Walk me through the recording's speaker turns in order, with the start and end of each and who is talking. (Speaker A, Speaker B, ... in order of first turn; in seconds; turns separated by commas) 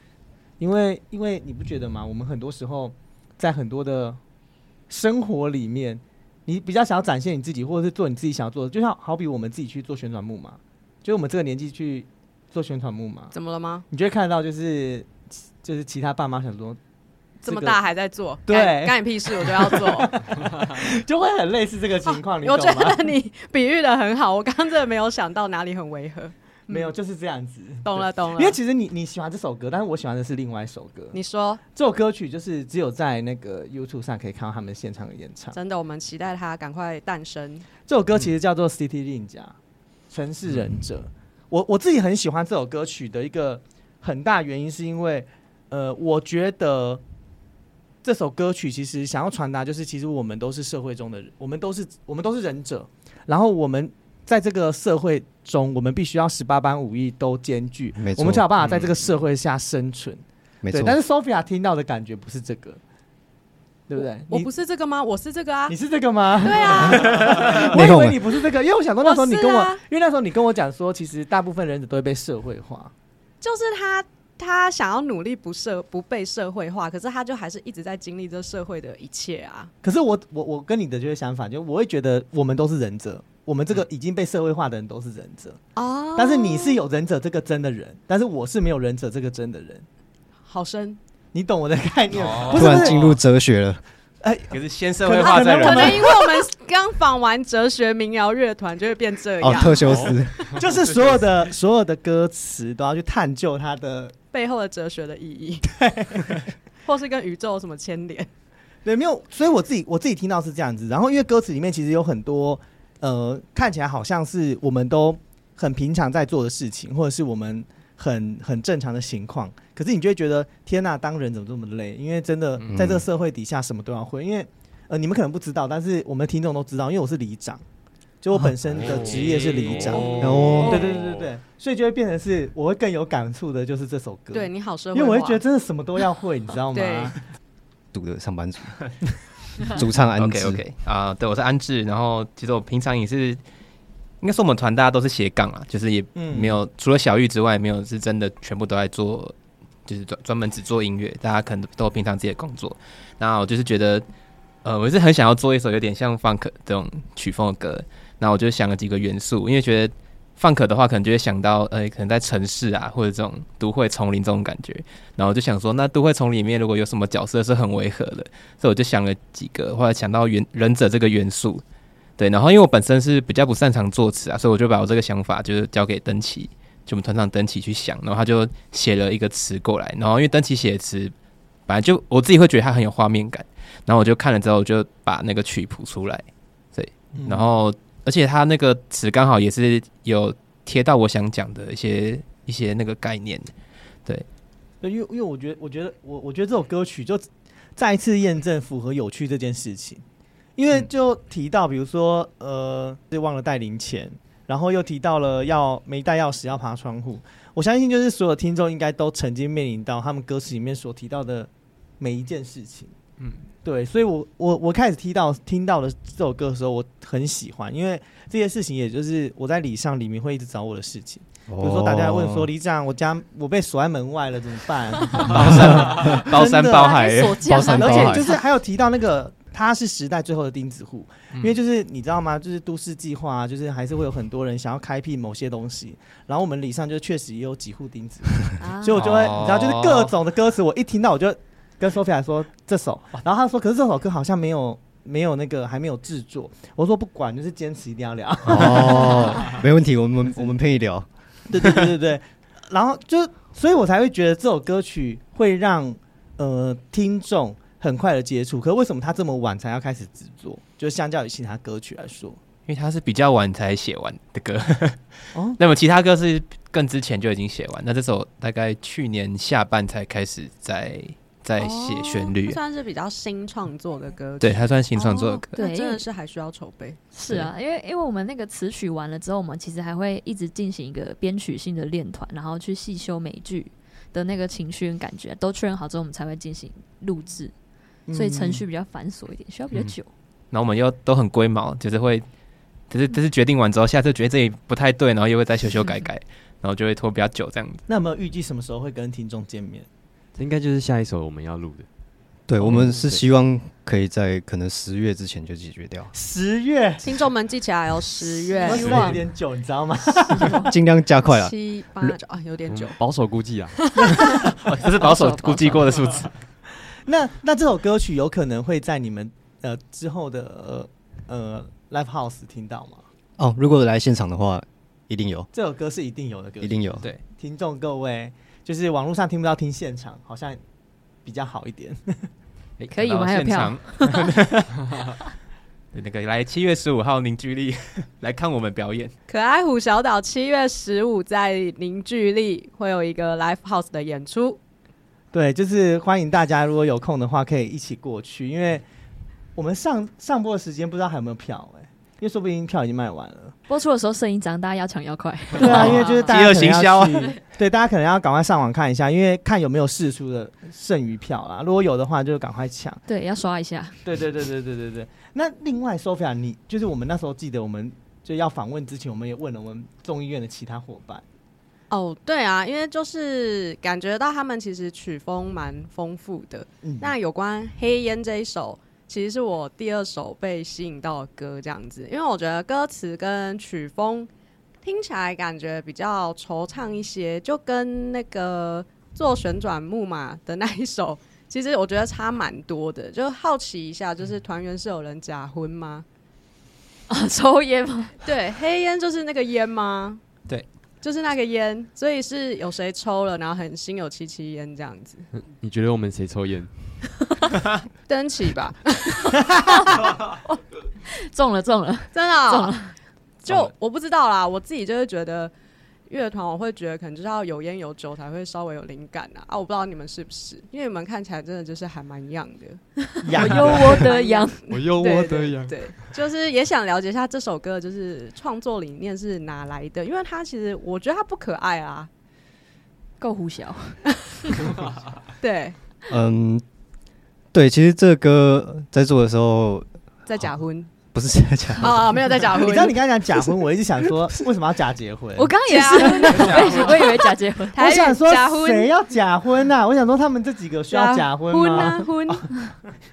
Speaker A: 0.6-4.2, Speaker A: 4.9-13.3, Speaker B: 13.3-13.9, Speaker A: 13.9-16.8, Speaker B: 17.4-20.2, Speaker A: 17.5-17.8, Speaker A: 18.5-23.1, Speaker B: 22.1-26.9, Speaker A: 26.7-31.1, Speaker B: 27.9-28.6, Speaker B: 31.1-31.6, Speaker A: 31.7-35.6, Speaker B: 35.5-37.7, Speaker A: 37.9-39.6, Speaker A: 40.1-47.0, Speaker A: 48.0-62.8, Speaker C: 58.0-58.5, Speaker D: 58.6-58.9, Speaker C: 60.6-61.0, Speaker A: 63.9-64.5, Speaker B: 64.3-65.8, Speaker A: 65.7-72.9, Speaker B: 66.4-67.5, Speaker C: 67.7-68.3, Speaker B: 69.0-69.8, Speaker B: 73.4-79.7, Speaker A: 79.8-85.7, Speaker B: 85.8-86.8, Speaker A: 86.2-89.9, Speaker B: 90.5-91.0, Speaker A: 91.3-93.0, Speaker D: 92.1-93.2, Speaker C: 92.5-93.8, Speaker A: 94.2-96.2, Speaker D: 94.5-96.1, Speaker B: 95.2-100.5, Speaker C: 99.4-100.5, Speaker E: 99.8-100.1, Speaker A: 100.5-104.2, Speaker B: 104.3-105.6, Speaker A: 105.7-106.5, Speaker B: 106.8-108.3, Speaker A: 108.8-127.6, Speaker C: 122.7-123.1, Speaker A: 128.2-137.2, Speaker D: 128.8-131.0, Speaker B: 129.8-130.8, Speaker C: 130.2-130.9, Speaker B: 134.3-135.4, Speaker B: 136.7-137.1, Speaker C: 137.9-139.0, Speaker C: 139.7-140.6, Speaker D: 140.2-143.4, Speaker D: 144.2-149.3, Speaker A: 146.2-146.6, Speaker D: 149.9-154.1, Speaker D: 154.6-171.6, Speaker D: 172.2-181.1, Speaker D: 181.7-193.5, Speaker A: 187.2-187.5, Speaker A: 194.8-200.0, Speaker A: 200.6-212.9, Speaker D: 213.2-213.4, Speaker A: 213.6-249.6, Speaker C: 221.5-222.5, Speaker D: 225.3-227.5, Speaker F: 226.8-228.4, Speaker C: 227.5-228.3, Speaker F: 238.6-239.2, Speaker D: 238.9-240.1, Speaker C: 248.5-251.1, Speaker A: 251.5-262.4, Speaker D: 262.7-272.6, Speaker B: 271.6-277.0, Speaker D: 274.4-275.5, Speaker F: 275.5-276.1, Speaker F: 277.1-287.5, Speaker D: 277.2-277.5, Speaker A: 288.1-288.7, Speaker F: 288.1-290.1, Speaker D: 290.5-292.3, Speaker D: 292.9-297.8, Speaker A: 297.9-299.9, Speaker E: 300.4-301.9, Speaker C: 302.5-306.1, Speaker E: 302.6-303.2, Speaker A: 306.1-307.3, Speaker B: 307.0-309.2, Speaker F: 308.3-309.2, Speaker A: 308.6-310.6, Speaker F: 310.3-310.7, Speaker C: 310.6-311.5, Speaker B: 311.2-314.1, Speaker E: 312.7-313.8, Speaker D: 314.6-316.4, Speaker F: 315.0-315.8, Speaker A: 317.0-323.0, Speaker C: 323.4-325.5, Speaker A: 325.5-330.6, Speaker C: 326.6-327.1, Speaker A: 331.2-332.3, Speaker D: 332.8-335.0, Speaker F: 332.9-334.2, Speaker D: 335.9-339.1, Speaker B: 339.3-344.6, Speaker A: 345.3-348.9, Speaker A: 349.6-353.6, Speaker F: 353.7-356.3, Speaker A: 355.6-363.0, Speaker D: 355.6-357.3, Speaker F: 363.1-364.0, Speaker A: 364.0-371.2, Speaker B: 371.9-384.3, Speaker A: 376.8-377.1, Speaker B: 384.8-396.1, Speaker F: 397.1-398.2, Speaker B: 398.2-400.2, Speaker B: 401.0-405.3, Speaker E: 405.3-407.0, Speaker B: 408.1-409.4, Speaker F: 411.3-412.9, Speaker B: 412.1-415.5, Speaker B: 416.1-422.8, Speaker F: 423.2-424.8, Speaker A: 423.2-424.1, Speaker B: 423.5-432.1, Speaker E: 424.7-426.1, Speaker F: 433.2-434.0, Speaker B: 435.4-435.8, Speaker C: 436.1-436.6, Speaker C: 437.5-439.9, Speaker B: 440.3-440.9, Speaker C: 441.1-442.4, Speaker B: 441.8-443.0, Speaker A: 442.6-445.6, Speaker F: 445.4-447.8, Speaker B: 445.6-447.2, Speaker D: 446.4-446.8, Speaker B: 447.7-448.9, Speaker A: 447.8-452.9, Speaker B: 450.9-452.5